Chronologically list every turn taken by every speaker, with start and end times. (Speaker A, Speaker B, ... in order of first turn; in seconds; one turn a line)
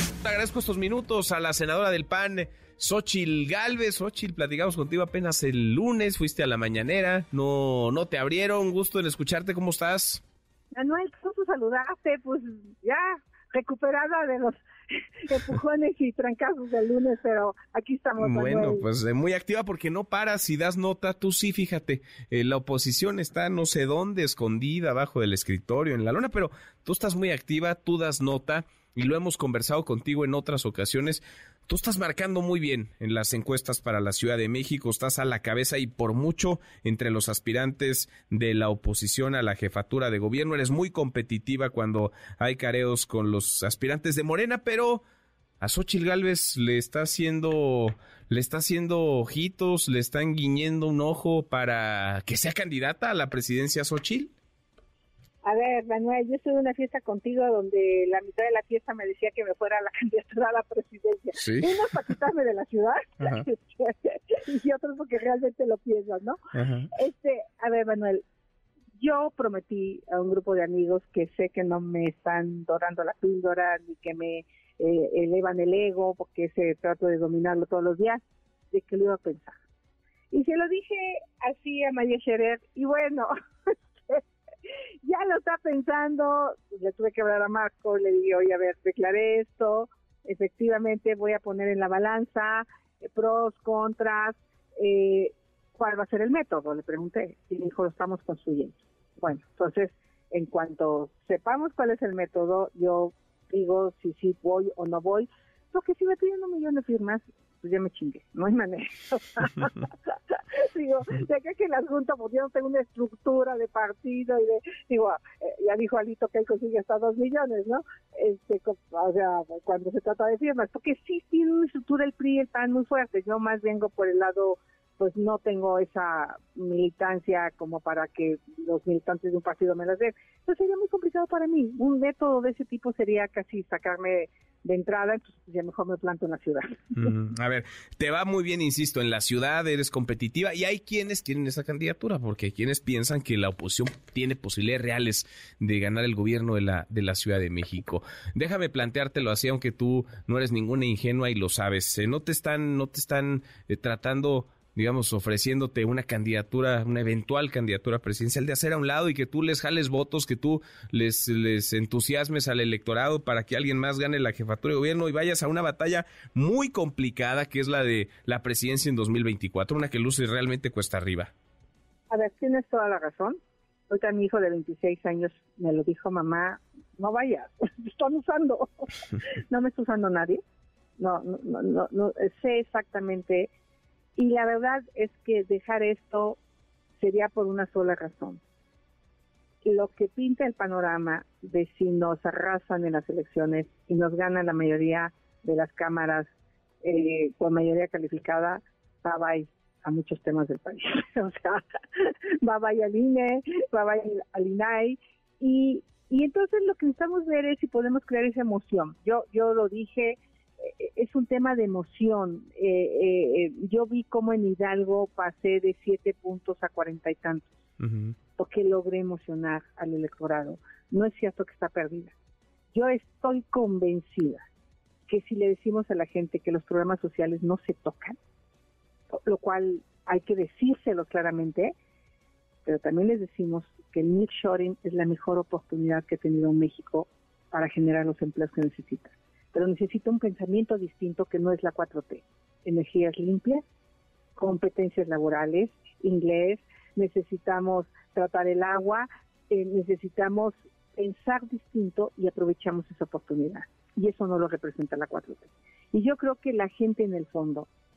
Speaker A: 0.2-10.2
Speaker B: 10.7-14.6
Speaker B: 15.2-18.8
Speaker A: 18.2-45.0
Speaker A: 45.6-54.3
Speaker B: 55.4-68.2
Speaker A: 61.4-61.8
Speaker A: 66.5-66.9
Speaker B: 69.0-79.5
Speaker B: 80.3-83.3
Speaker B: 85.0-136.8
Speaker A: 136.9-171.3
Speaker B: 172.1-180.4
Speaker B: 181.0-183.5
Speaker B: 184.2-186.4
Speaker B: 187.0-188.4
Speaker B: 189.6-196.3
Speaker B: 196.8-217.5
Speaker A: 217.8-218.1
Speaker B: 218.4-222.1
Speaker B: 222.7-224.4
Speaker B: 225.1-228.2
Speaker B: 229.1-231.7
Speaker B: 232.6-243.6
Speaker B: 244.3-257.7